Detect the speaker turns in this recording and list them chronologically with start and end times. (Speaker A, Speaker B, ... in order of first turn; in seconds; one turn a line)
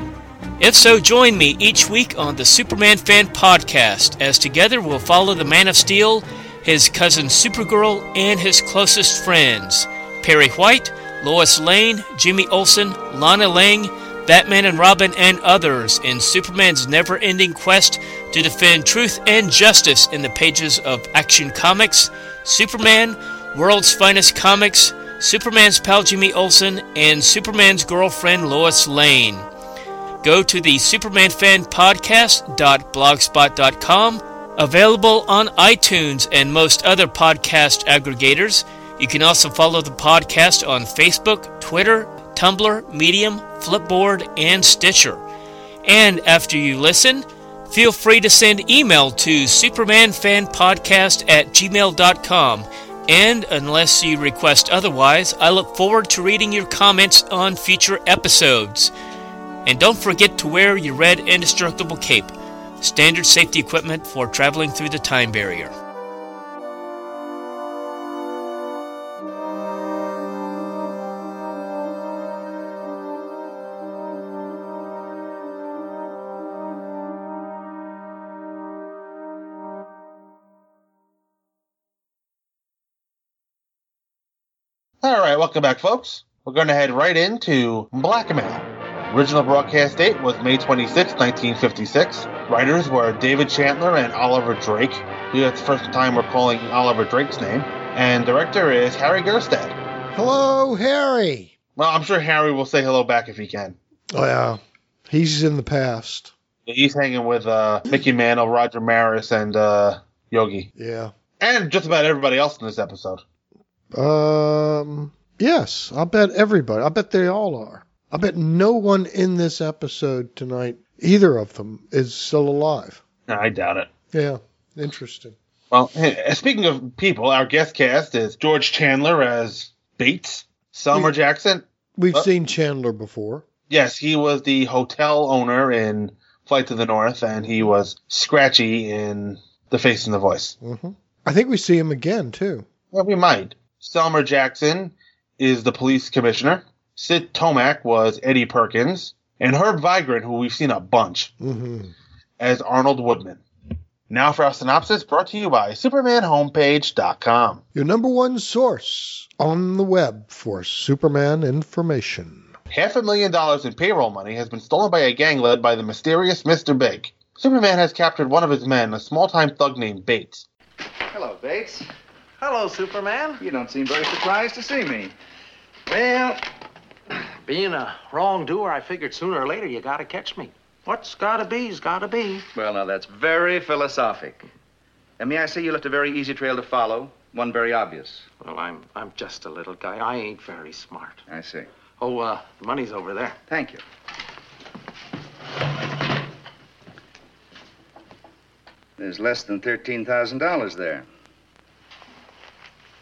Speaker A: 0.6-29.5
Speaker A: 30.2-45.2
Speaker A: 45.9-58.9
Speaker A: 59.6-65.7
Speaker B: 85.0-99.8
Speaker C: 100.1-101.5
Speaker B: 101.8-103.8
Speaker C: 104.1-106.3
Speaker B: 106.7-110.7
Speaker C: 110.8-111.1
Speaker B: 111.4-113.2
Speaker C: 113.9-123.0
Speaker B: 123.3-123.9
Speaker C: 124.1-125.4
Speaker B: 125.7-132.3
Speaker C: 132.0-133.5
Speaker B: 133.7-140.6
Speaker C: 140.6-142.7
Speaker B: 142.9-151.3
Speaker C: 151.4-151.9
Speaker B: 152.4-153.4
Speaker B: 154.1-157.6
Speaker C: 157.7-162.5
Speaker B: 162.7-170.4
Speaker D: 171.1-171.9
Speaker E: 172.4-173.4
Speaker D: 173.4-175.1
Speaker D: 175.9-176.4
Speaker E: 177.4-182.5
Speaker D: 182.5-184.5
Speaker D: 185.2-188.3
Speaker E: 188.4-191.2
Speaker D: 191.3-191.7
Speaker E: 192.0-193.4
Speaker D: 193.5-193.8
Speaker D: 199.0-201.1